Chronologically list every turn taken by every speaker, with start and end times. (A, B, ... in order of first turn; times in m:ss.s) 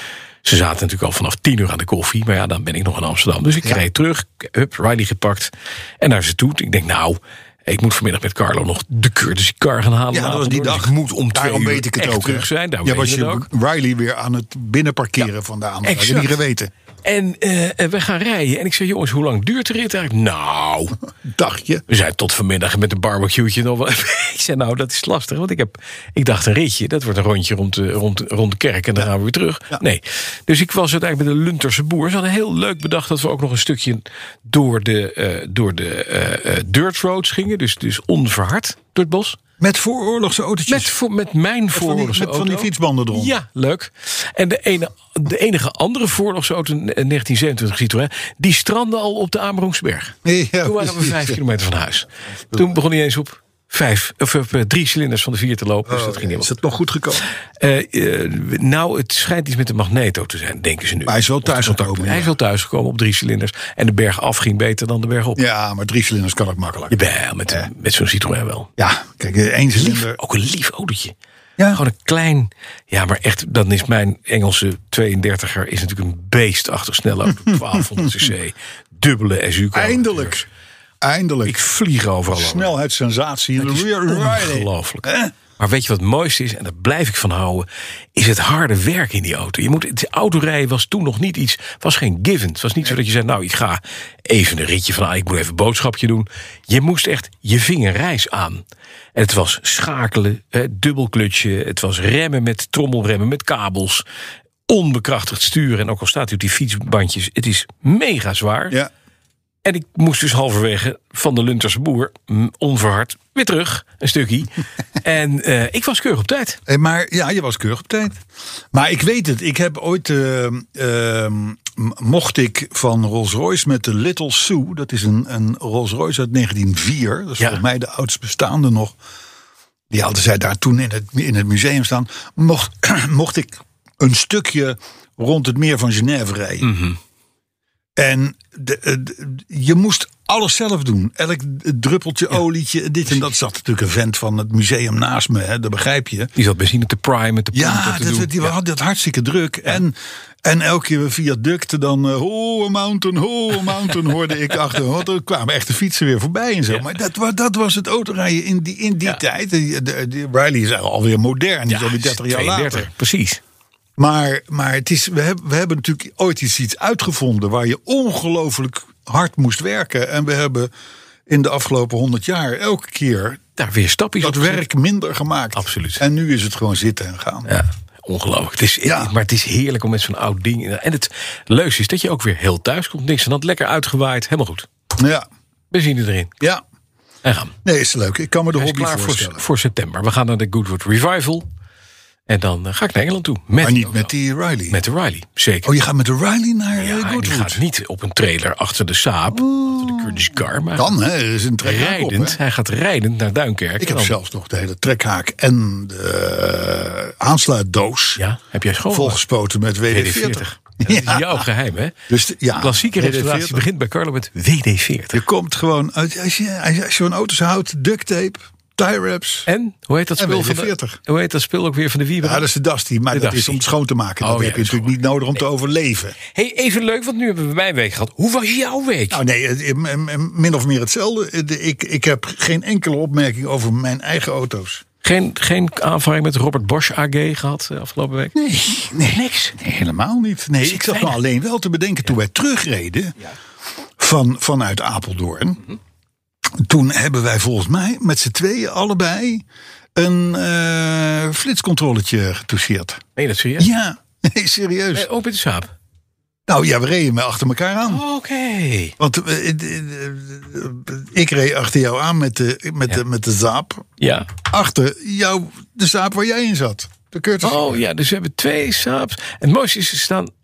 0:00.4-0:13.5 A
0:10.1-0:16.7 B
0:15.8-0:16.3 A
0:17.0-0:21.0 A
0:21.2-0:21.8 B
0:21.9-0:39.4 A
0:39.6-0:40.9 B
0:40.7-0:56.6 A
0:41.7-0:43.4 B
0:50.2-0:51.4 B
0:55.8-0:57.3 B
0:57.6-1:05.4 A
1:01.0-1:02.4 B
1:05.4-1:07.6 B
1:06.9-1:08.7 A
1:08.8-1:10.2 B
1:09.8-1:11.1 A
1:11.7-1:20.4 A
1:19.7-1:20.4 B
1:21.0-1:21.6 B
1:21.4-1:22.7 A
1:22.3-1:25.3 B
1:23.6-1:38.6 A
1:39.1-1:44.0 A
1:44.7-1:48.8 A
1:49.6-1:56.6 A
1:56.7-1:58.2 B
1:58.7-2:09.0 B
2:09.9-2:16.7 B
2:16.6-2:17.0 A
2:18.0-2:26.3 B
2:26.4-2:28.5 A
2:27.5-2:42.9 B
2:41.7-2:43.4 A
2:44.0-2:50.7 B
2:51.3-2:53.4 B
2:53.6-2:54.6 A
2:54.2-2:57.5 B
2:55.5-2:56.0 A
2:57.4-3:04.6 A
2:58.8-2:59.1 B
3:05.0-3:05.2 B
3:05.7-3:06.3 A
3:07.2-3:07.5 A
3:07.6-3:09.4 B
3:08.5-3:11.4 A
3:12.3-3:14.1 A
3:13.6-3:14.8 B
3:14.7-3:15.7 A
3:15.6-3:17.6 B
3:16.8-3:21.0 A
3:19.3-3:22.4 B
3:21.6-3:24.1 A
3:23.8-3:28.2 B
3:28.2-3:29.2 A
3:28.9-3:31.4 B
3:29.9-3:32.0 A
3:32.1-3:33.7 B
3:32.6-3:35.2 A
3:35.1-3:39.5 B
3:39.5-3:42.5 A
3:40.2-3:41.0 B
3:42.2-3:46.2 B
3:43.1-3:43.6 A
3:44.2-3:44.9 A
3:46.3-3:49.2 A
3:49.1-3:54.8 B
3:55.0-3:58.3 A
3:58.3-4:03.1 B
3:59.0-3:59.5 A
4:00.6-4:01.2 A
4:04.0-4:05.6 B
4:06.6-4:09.4 B
4:10.0-4:13.0 B
4:13.2-4:13.7 A
4:13.6-4:15.1 B
4:14.9-4:15.7 A
4:16.5-4:18.0 B
4:17.8-4:18.9 A
4:19.0-4:23.8 B
4:24.0-4:24.3 A
4:24.4-4:27.8 B
4:27.4-4:30.3 A